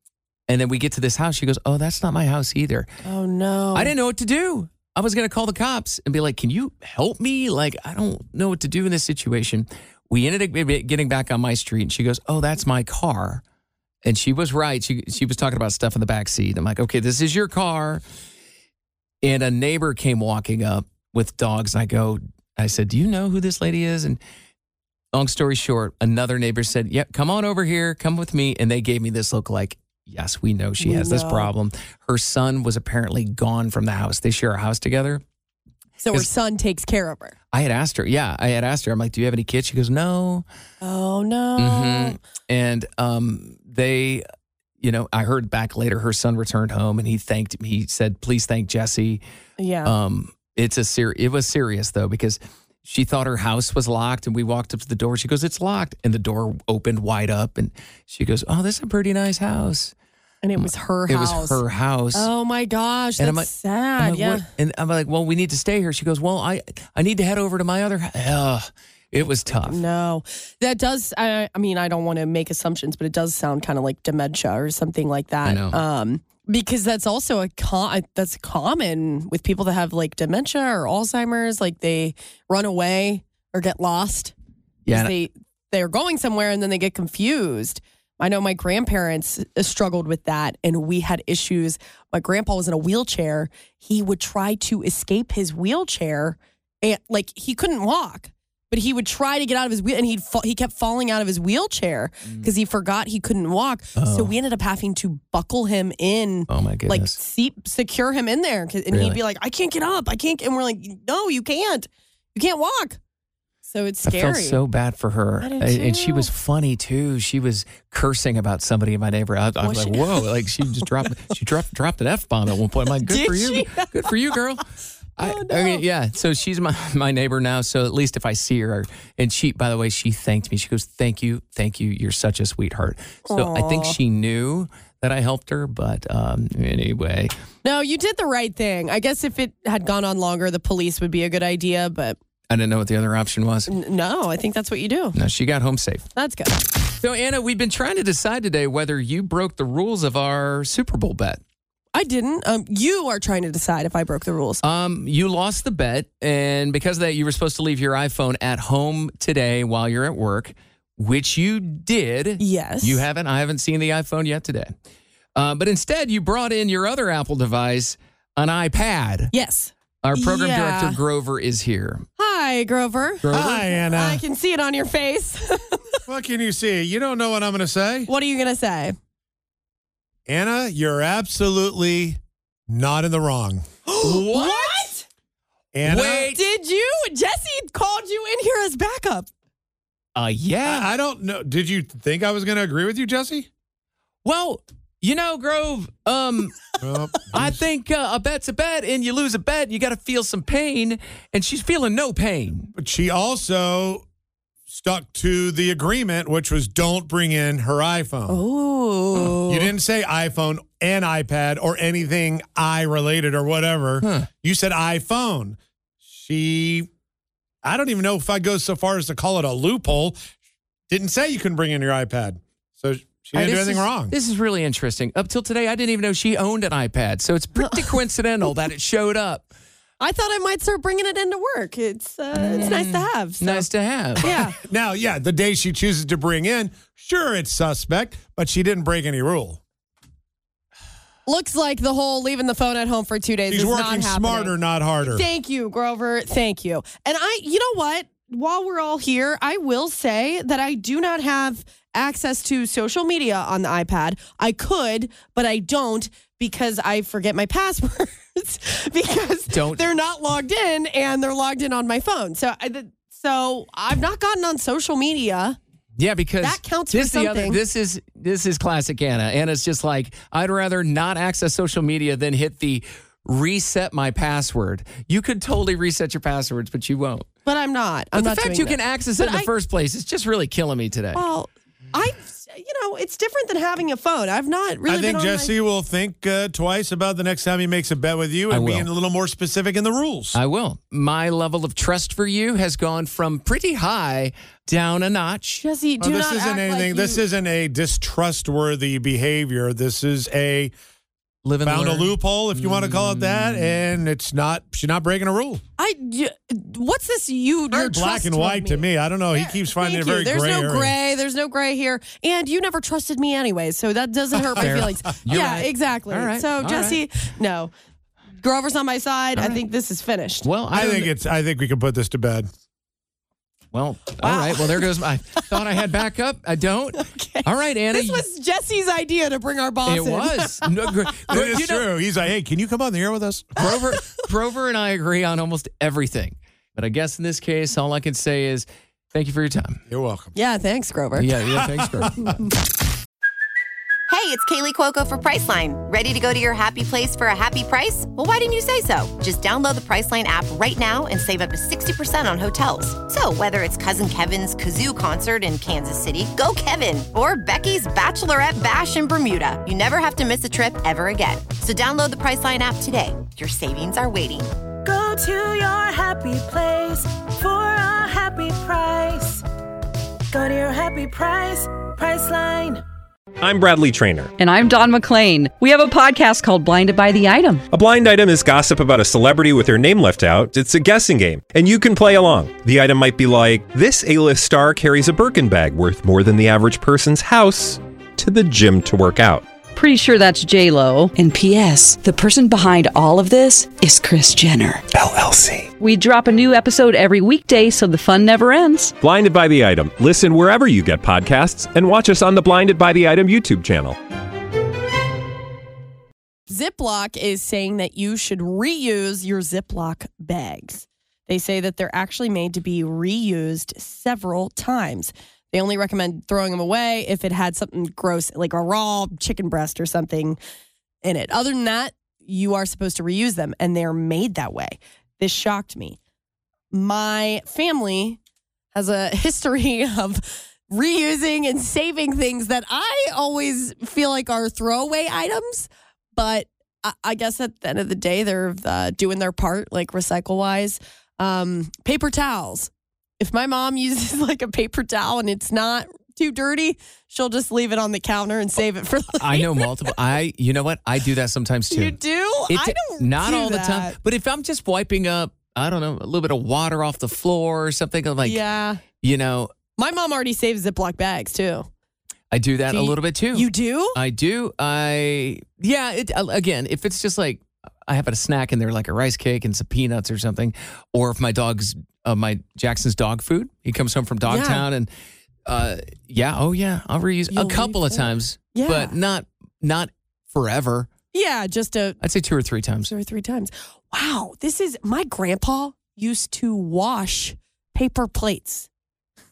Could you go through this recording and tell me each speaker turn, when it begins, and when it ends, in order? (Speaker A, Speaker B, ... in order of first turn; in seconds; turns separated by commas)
Speaker A: 0.5-2.9, Speaker B: 3.0-3.9, Speaker A: 3.7-13.4, Speaker A: 14.0-18.0, Speaker A: 19.2-24.2, Speaker A: 25.1-35.2, Speaker B: 30.8-31.5, Speaker B: 36.0-37.4, Speaker A: 37.5-40.4, Speaker B: 40.8-42.2, Speaker A: 41.6-44.2, Speaker A: 44.8-49.2, Speaker B: 49.6-49.9, Speaker A: 49.8-59.9, Speaker B: 60.4-61.6, Speaker A: 60.6-62.3, Speaker B: 62.1-64.5, Speaker A: 63.2-69.8, Speaker B: 69.5-84.3, Speaker A: 75.4-75.8, Speaker A: 84.8-85.1, Speaker B: 84.9-113.0, Speaker A: 104.0-104.3, Speaker A: 106.5-107.2, Speaker A: 108.9-109.2, Speaker B: 113.7-114.6, Speaker A: 114.0-124.6, Speaker B: 115.4-116.3, Speaker B: 119.6-120.3, Speaker B: 123.0-124.1, Speaker A: 125.2-137.3, Speaker B: 125.2-125.8, Speaker B: 133.3-134.0, Speaker B: 137.6-142.2, Speaker A: 142.5-143.7, Speaker B: 143.7-145.2, Speaker A: 145.1-146.1, Speaker B: 146.2-146.6, Speaker A: 147.0-151.4, Speaker B: 151.9-154.6, Speaker A: 154.6-164.7, Speaker B: 162.4-163.0, Speaker A: 165.3-169.3, Speaker B: 169.3-171.0, Speaker A: 170.0-172.1, Speaker B: 172.2-176.0, Speaker A: 173.2-173.7, Speaker C: 173.3-174.2, Speaker C: 176.1-178.1, Speaker B: 178.1-178.9, Speaker C: 180.3-183.6, Speaker B: 183.8-185.0, Speaker A: 184.0-184.8, Speaker C: 185.7-186.3, Speaker A: 185.8-186.4, Speaker B: 186.3-189.3, Speaker A: 190.2-190.9, Speaker C: 190.6-193.5, Speaker A: 194.2-196.5, Speaker C: 196.8-197.6, Speaker A: 197.3-202.7, Speaker C: 202.8-204.0, Speaker C: 204.7-208.4, Speaker B: 208.3-209.7, Speaker A: 209.1-209.6, Speaker C: 209.5-215.6, Speaker A: 214.0-214.3, Speaker C: 216.1-216.9, Speaker C: 217.6-220.2, Speaker C: 220.9-224.1, Speaker A: 223.3-229.5, Speaker B: 230.0-233.7, Speaker A: 232.3-234.3, Speaker B: 234.2-234.6, Speaker C: 234.3-239.6, Speaker B: 241.3-244.5, Speaker C: 243.5-245.2, Speaker B: 245.0-265.6, Speaker A: 259.5-259.9, Speaker A: 266.0-277.3, Speaker B: 266.4-267.6, Speaker B: 277.4-279.5, Speaker A: 278.1-281.2, Speaker B: 281.1-285.5, Speaker C: 284.9-290.4, Speaker A: 288.5-288.9, Speaker A: 290.3-295.6, Speaker B: 295.6-297.2, Speaker C: 296.0-300.7, Speaker A: 301.4-303.8, Speaker C: 301.6-305.6, Speaker B: 305.8-317.7, Speaker C: 307.7-310.9, Speaker A: 314.6-317.0, Speaker C: 314.6-314.8, Speaker B: 318.4-320.4, Speaker A: 319.4-319.6, Speaker A: 320.4-321.1, Speaker C: 320.7-322.5, Speaker A: 323.7-328.2, Speaker B: 324.2-325.6, Speaker B: 327.0-331.4, Speaker A: 329.9-331.9, Speaker C: 331.3-333.6, Speaker A: 333.6-339.8, Speaker B: 333.7-334.2, Speaker C: 339.9-340.3, Speaker B: 340.3-341.3, Speaker A: 341.1-342.4, Speaker C: 341.6-342.1, Speaker D: 344.1-364.5, Speaker E: 364.8-369.4, Speaker E: 370.3-372.8, Speaker F: 373.4-374.3, Speaker G: 374.4-377.6, Speaker F: 377.7-389.4, Speaker G: 389.7-394.8, Speaker F: 394.9-395.7, Speaker G: 395.8-398.9, Speaker F: 399.0-404.0, Speaker B: 406.5-420.4, Speaker B: 421.0-426.0, Speaker B: 426.7-428.2, Speaker B: 428.7-449.9, Speaker A: 449.1-452.0, Speaker B: 451.7-454.0, Speaker A: 452.5-458.4, Speaker B: 458.2-458.8, Speaker A: 459.0-459.5, Speaker B: 459.8-461.7, Speaker A: 462.3-474.9, Speaker B: 462.7-464.0, Speaker B: 474.2-474.6, Speaker A: 475.4-480.9, Speaker B: 477.3-478.9, Speaker B: 481.1-482.0, Speaker A: 482.0-482.9, Speaker B: 482.9-488.7